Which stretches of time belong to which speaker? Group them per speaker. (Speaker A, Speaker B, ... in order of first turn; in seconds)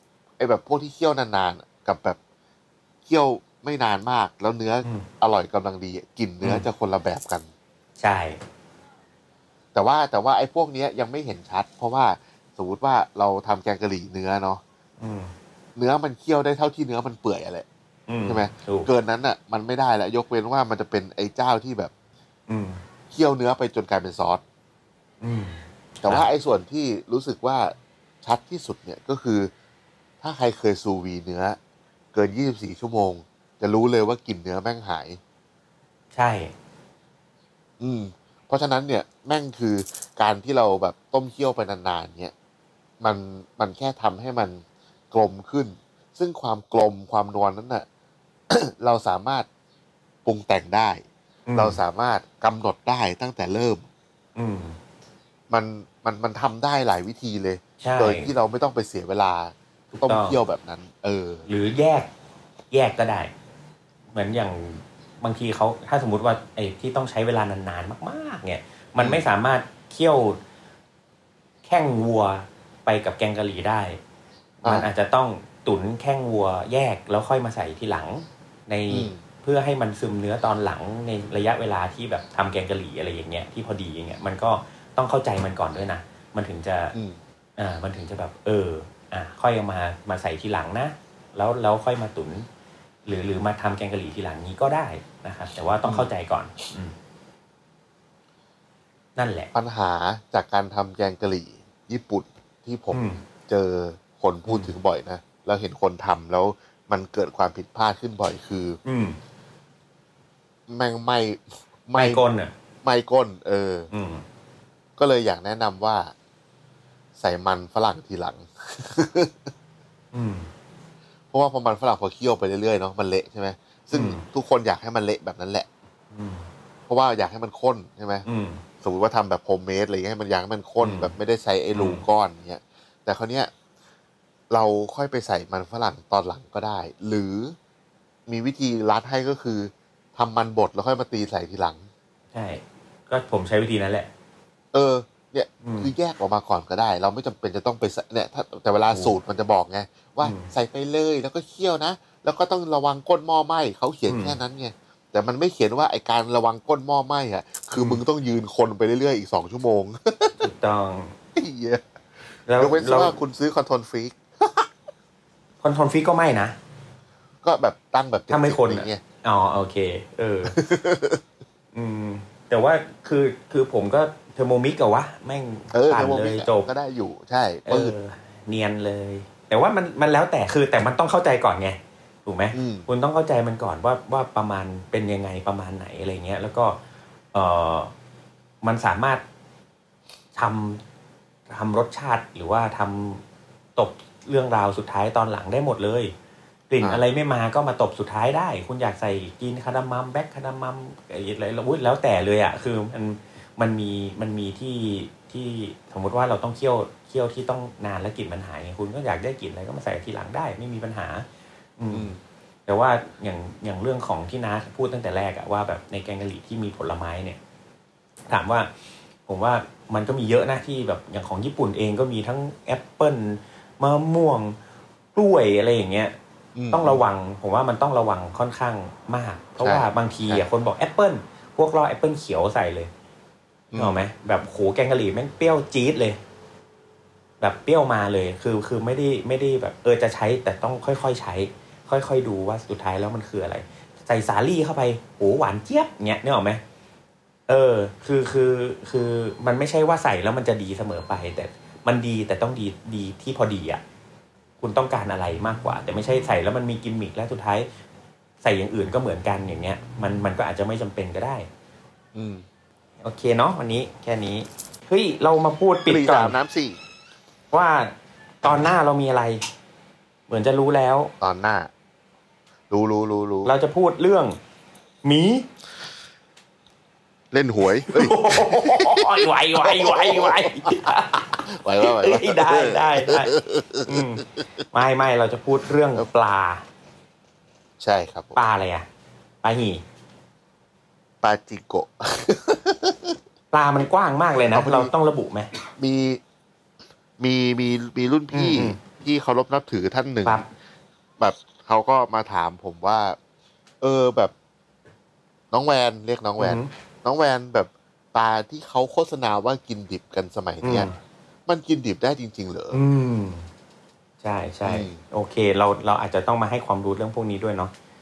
Speaker A: 0.4-2.2, 3.0-7.5, 9.7-14.6, 15.8-17.7, 18.3-21.9, 23.1-24.4, 26.0-29.5, 30.2-31.6, 32.1-35.2, 37.8-42.3, 43.0-47.8, 48.5-49.5, 50.2-51.0, 51.6-53.9, 55.5-61.5, 69.0-69.2, 74.6-74.9, 78.9-79.2, 86.9-87.2, 95.8-96.1, 99.5-108.8, 110.7-112.2, 112.8-113.9, 115.0-116.1, 117.2-119.5, 121.3-125.7, 126.9-128.2, 128.8-133.5, 134.5-137.5, 138.3-141.8, 144.7-160.5, 161.3-161.8, 162.6-164.7, 167.4-169.0, 170.4-171.2, 175.7-177.9, 182.5-182.9, 211.9-212.2, 226.5-227.0, 229.6-230.4, 233.7-234.0, 262.1-262.4, 265.9-266.8, 271.2-271.7, 272.7-273.5, 277.3-284.0, 287.8-288.4, 291.2-293.2, 294.4-294.9, 295.8-296.2, 297.2-300.4, 301.2-303.2, 303.8-304.3, 305.5-310.9, 311.5-312.8, 314.6-315.0
Speaker B: 8.0-8.4, 15.0-15.3, 18.1-18.9, 22.5-22.8, 25.2-26.2, 36.1-36.5, 51.5-51.8, 54.4-54.8, 57.8-58.3, 59.9-60.4, 61.5-62.1, 62.7-63.3, 64.1-70.4, 71.6-74.0, 74.6-86.9, 87.6-92.5, 93.0-96.9, 99.2-99.5, 102.9-103.2, 104.5-104.7, 108.8-109.2, 111.9-112.5, 113.9-114.2, 120.1-120.5, 123.9-124.2, 126.1-126.5, 128.2-128.6, 130.8-131.1, 131.7-132.0, 142.3-144.1, 145.6-145.9, 148.9-149.2, 150.2-150.5, 154.1-154.4, 157.7-158.0, 160.4-161.2, 162.5-163.2, 165.6-166.5, 168.3-170.6, 171.7-176.7, 177.7-186.8, 187.3-187.9, 188.6-189.2, 190.3-190.8, 191.5-193.2, 193.8-196.1, 196.7-211.2, 211.8-212.1, 212.7-217.4, 218.3-218.7, 219.3-224.6, 225.1-226.1, 226.7-232.9, 233.8-236.2, 237.4-246.6, 247.5-253.8, 254.6-257.7, 258.4-261.5, 263.0-266.4, 267.5-269.4, 270.3-271.1, 273.4-274.4, 275.0-275.5, 277.9-286.6, 288.4-288.9, 289.4-289.8, 293.5-295.5, 298.3-298.8, 300.2-300.5, 306.4-306.7, 310.6-310.9, 312.7-313.4, 314.2-317.7